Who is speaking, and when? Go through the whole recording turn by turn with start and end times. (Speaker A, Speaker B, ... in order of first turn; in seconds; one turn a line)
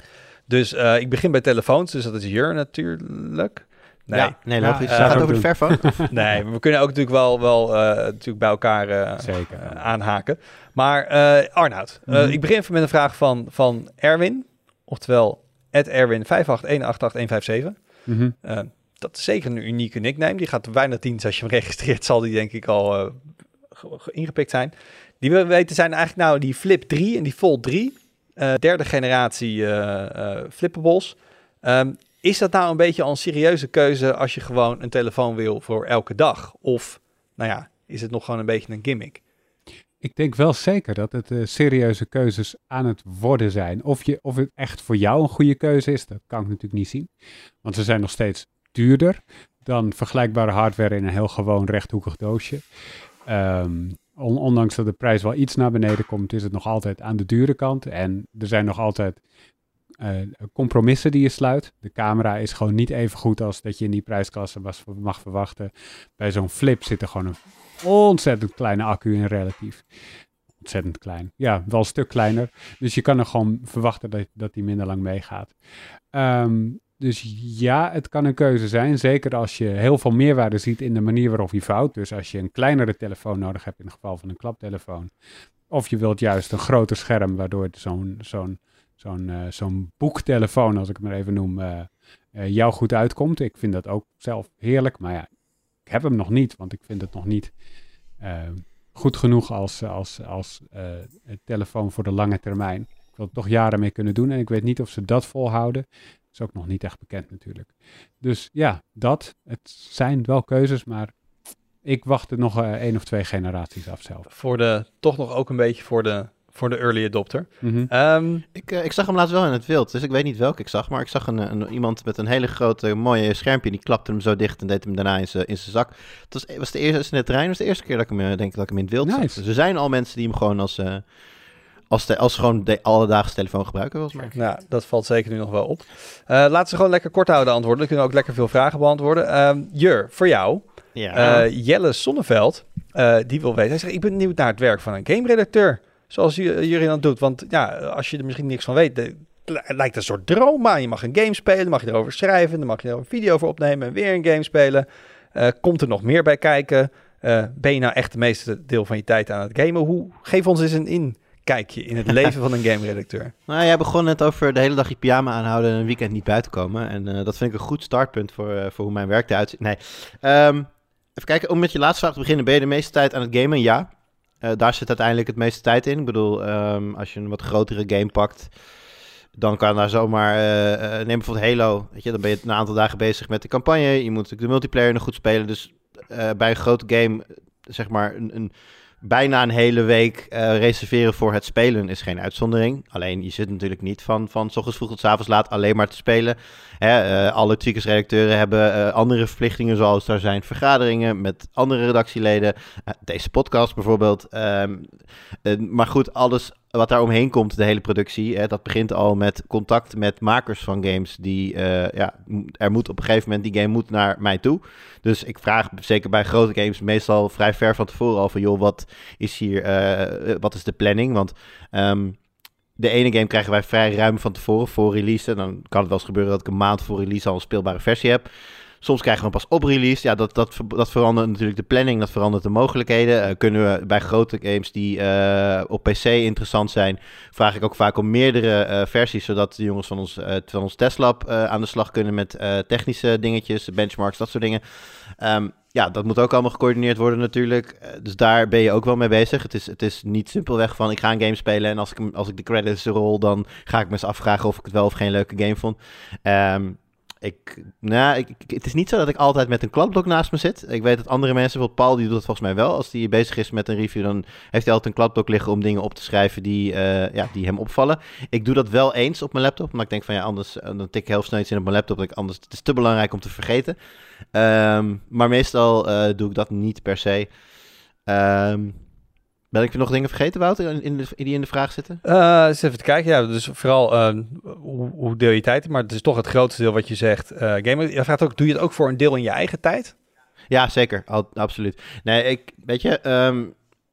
Speaker A: 0.5-5.4
Speaker B: 4.1-6.0
Speaker C: 4.6-6.1
Speaker A: 5.9-39.2
Speaker C: 9.2-9.8
Speaker C: 12.1-12.4
Speaker C: 18.1-18.3
Speaker C: 40.0-47.1
Speaker C: 47.6-52.6
Speaker C: 53.3-59.2
Speaker C: 60.0-69.8
Speaker C: 70.6-75.5
Speaker C: 76.1-85.1
Speaker C: 85.7-95.3
Speaker C: 95.9-97.5
Speaker C: 98.2-111.1
Speaker C: 111.8-114.3
Speaker A: 114.3-118.5
Speaker C: 117.6-117.9
Speaker B: 118.5-131.0
Speaker C: 129.0-129.4
Speaker B: 131.9-134.3
Speaker A: 134.3-163.3
Speaker B: 140.9-141.5
Speaker B: 163.5-173.9
Speaker B: 174.4-178.5
Speaker B: 179.4-222.2
Speaker B: 222.8-228.2
Speaker B: 228.8-244.6
Speaker B: 245.2-273.8
Speaker B: 274.3-277.3
Speaker B: 278.1-278.8
Speaker B: 279.5-282.0
Speaker A: 282.0-289.9
Speaker B: 290.5-293.6